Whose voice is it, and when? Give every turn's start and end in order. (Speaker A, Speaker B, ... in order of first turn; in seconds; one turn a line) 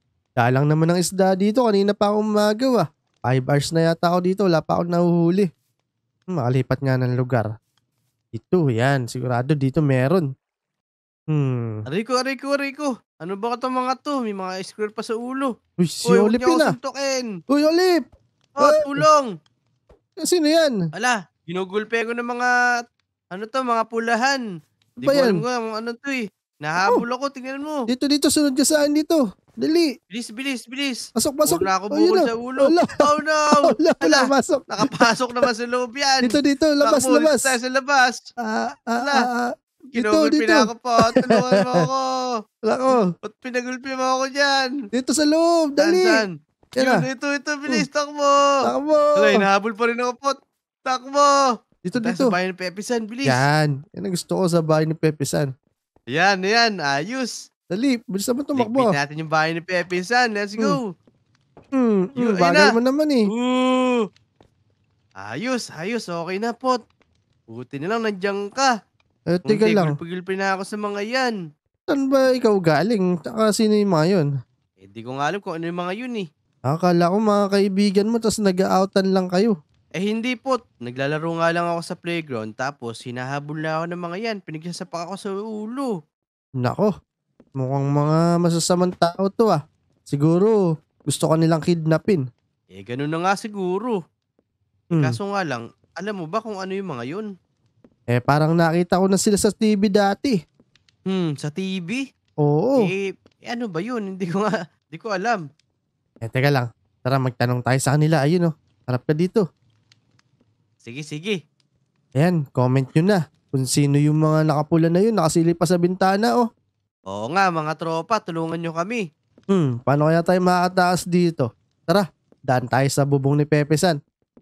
Speaker A: 0.4-5.5
Speaker A: 6.3-7.5
Speaker A: 8.3-10.3
Speaker A: 11.3-11.8
Speaker B: 11.9-15.5
Speaker A: 15.8-16.7
Speaker B: 16.1-17.3
Speaker A: 17.5-18.0
Speaker B: 18.6-19.3
Speaker A: 18.6-19.0
Speaker A: 20.2-20.7
Speaker B: 20.9-22.5
Speaker B: 23.3-24.4
Speaker B: 25.0-27.8
Speaker A: 25.0-25.4
Speaker A: 27.9-29.9
Speaker B: 30.1-38.2
Speaker A: 31.1-33.0
Speaker A: 33.6-34.8
Speaker A: 36.2-37.5
Speaker A: 38.4-41.5
Speaker B: 39.0-39.3
Speaker B: 39.9-42.1
Speaker A: 42.7-43.0
Speaker B: 43.2-44.7
Speaker A: 44.9-46.2
Speaker B: 45.8-48.4
Speaker A: 46.8-47.0
Speaker A: 48.6-49.4
Speaker B: 49.2-51.5
Speaker A: 51.8-52.3
Speaker B: 52.0-53.4
Speaker A: 53.2-55.5
Speaker B: 56.1-57.3
Speaker A: 57.7-58.9
Speaker B: 58.6-60.9
Speaker A: 61.8-63.3
Speaker B: 62.2-62.7
Speaker B: 63.3-64.0
Speaker B: 65.2-66.8
Speaker B: 67.5-68.7
Speaker A: 69.3-69.9
Speaker B: 69.5-71.3
Speaker A: 71.9-74.3
Speaker B: 74.8-76.3
Speaker A: 76.7-79.5
Speaker B: 80.0-85.9
Speaker A: 86.6-86.9
Speaker A: 87.6-92.2
Speaker B: 92.7-94.0
Speaker A: 94.9-95.2
Speaker B: 95.0-97.3
Speaker A: 98.1-100.4
Speaker B: 101.1-102.0
Speaker A: 102.4-102.8
Speaker B: 102.8-105.4
Speaker A: 106.2-109.4
Speaker B: 110.8-111.4
Speaker A: 112.2-116.5
Speaker B: 117.1-119.0
Speaker A: 119.5-124.0